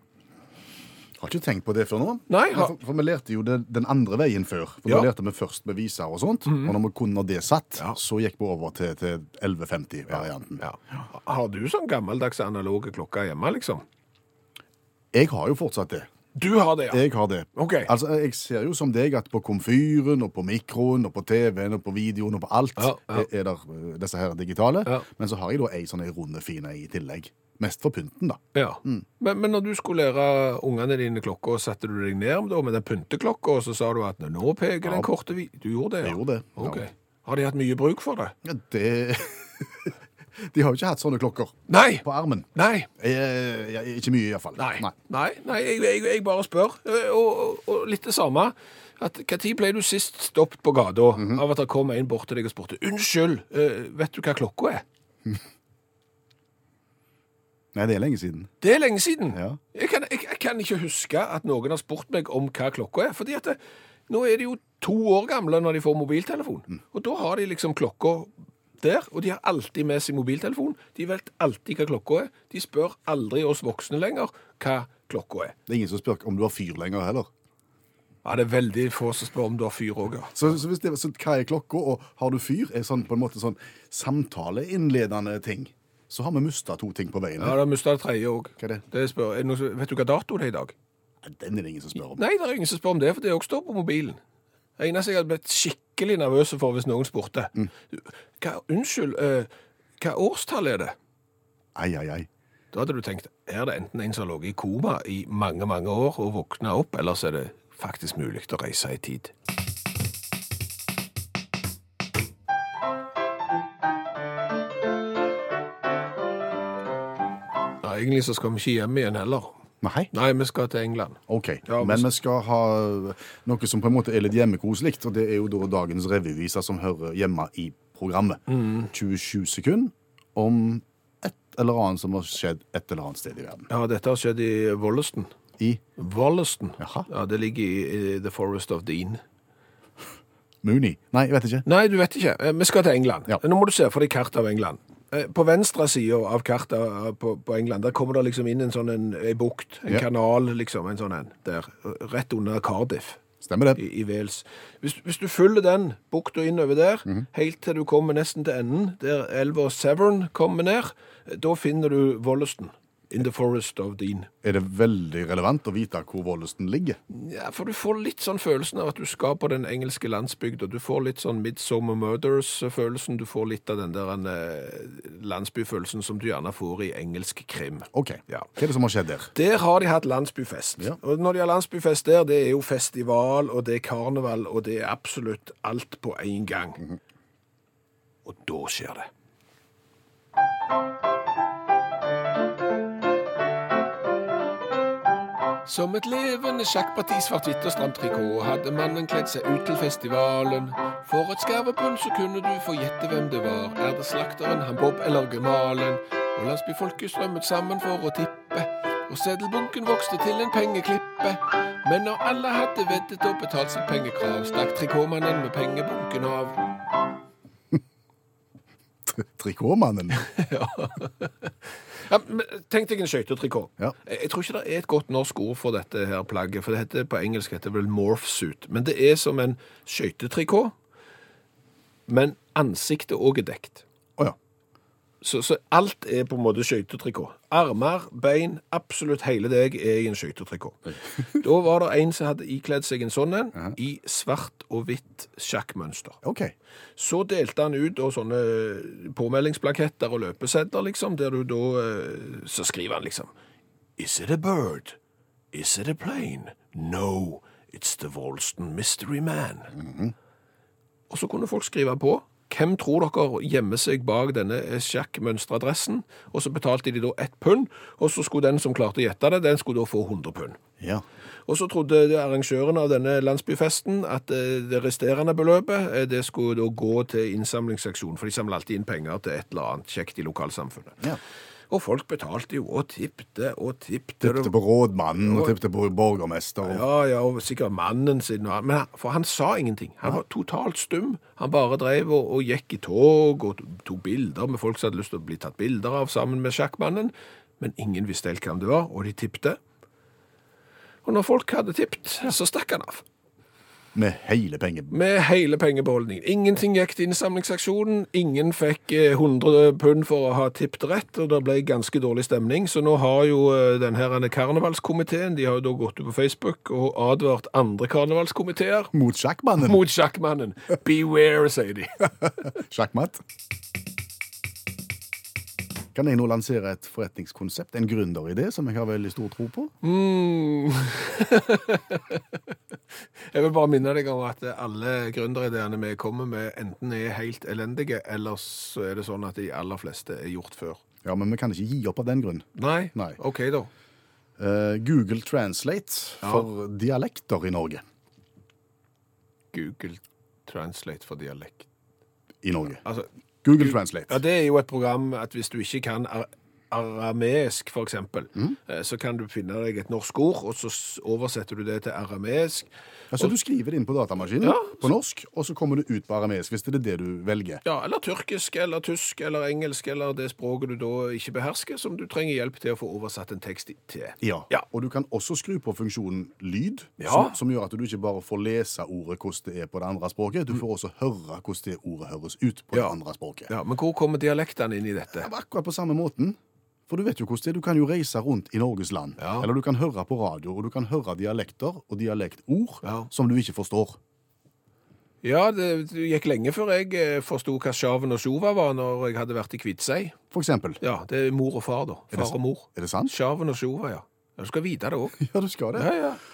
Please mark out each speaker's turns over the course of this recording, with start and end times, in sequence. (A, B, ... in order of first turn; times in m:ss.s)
0:01.2-0:10.6 A
0:02.3-0:02.7 B
0:06.4-0:06.8 B
0:10.6-0:13.8 B
0:15.1-0:16.1 A
0:16.3-0:17.0 B
0:16.9-0:29.0 A
0:17.5-0:17.9 B
0:22.8-0:23.2 B
0:28.5-0:38.4 B
0:34.8-0:35.1 A
0:36.0-0:36.8 A
0:38.4-0:44.9 A
0:41.7-0:42.9 B
0:44.6-0:54.8 B
0:51.2-0:51.4 A
0:57.7-0:58.5 A
0:58.6-1:15.5 B
0:59.3-0:59.6 A
1:15.7-1:17.3 A
1:18.2-1:20.4 B
1:20.3-1:27.6 A
1:27.4-1:30.7 B
1:31.2-1:32.2 A
1:32.1-1:34.2 B
1:34.8-1:39.5 B
1:40.0-1:40.9 B
1:41.7-1:42.3 A
1:42.7-1:49.3 B
1:57.8-1:59.6 B
1:59.8-2:00.1 A
2:00.1-2:02.1 B
2:01.3-2:13.7 A
2:08.5-2:08.9 B
2:13.7-2:15.3 B
2:16.0-2:19.2 B
2:16.8-2:17.1 A
2:20.6-2:21.6 A
2:21.6-2:33.2 B
2:33.4-2:33.8 A
2:33.8-2:44.3 B
2:44.4-2:47.0 A
2:47.1-2:58.5 B
2:57.9-2:59.3 A
2:59.3-3:06.8 B
3:08.2-3:09.1 B
3:15.6-3:36.6 B
3:39.0-3:40.3 A
3:40.1-3:50.7 B
3:52.1-3:53.8 B
3:55.2-4:06.2 B
4:06.2-4:06.5 A
4:07.0-4:13.3 B
4:14.0-4:15.0 B
4:15.5-4:19.7 B
4:19.7-4:20.1 A
4:21.1-4:30.6 B
4:31.4-4:41.0 B
4:41.7-4:44.5 B
4:44.2-4:46.8 A
4:45.2-4:45.5 B
4:46.6-4:59.6 B
5:01.0-5:03.0 B
5:03.9-5:04.9 A
5:04.9-5:18.9 B
5:18.9-5:19.8 A
5:19.6-5:22.1 B
5:22.4-5:23.2 A
5:25.9-5:29.7 A
5:29.8-5:32.4 B
5:33.2-5:40.8 B
5:41.0-5:43.2 A
5:42.6-5:43.7 B
5:44.4-5:47.8 A
5:46.2-5:46.5 B
5:49.5-5:51.6 B
5:52.4-5:52.8 A
5:52.8-6:02.7 B
5:53.4-5:54.2 A
6:03.1-6:07.6 A
6:04.4-6:04.9 B
6:07.6-6:14.6 B
6:14.2-6:23.5 A
6:17.0-6:17.4 B
6:23.5-6:25.3 B
6:25.1-6:26.4 A
6:26.9-6:34.0 A
6:29.2-6:29.5 B
6:32.8-6:33.1 B
6:35.2-6:40.2 B
6:40.3-6:40.8 A
6:40.8-6:45.2 B
6:42.1-6:43.1 A
6:45.2-6:46.0 A
6:45.7-6:46.2 B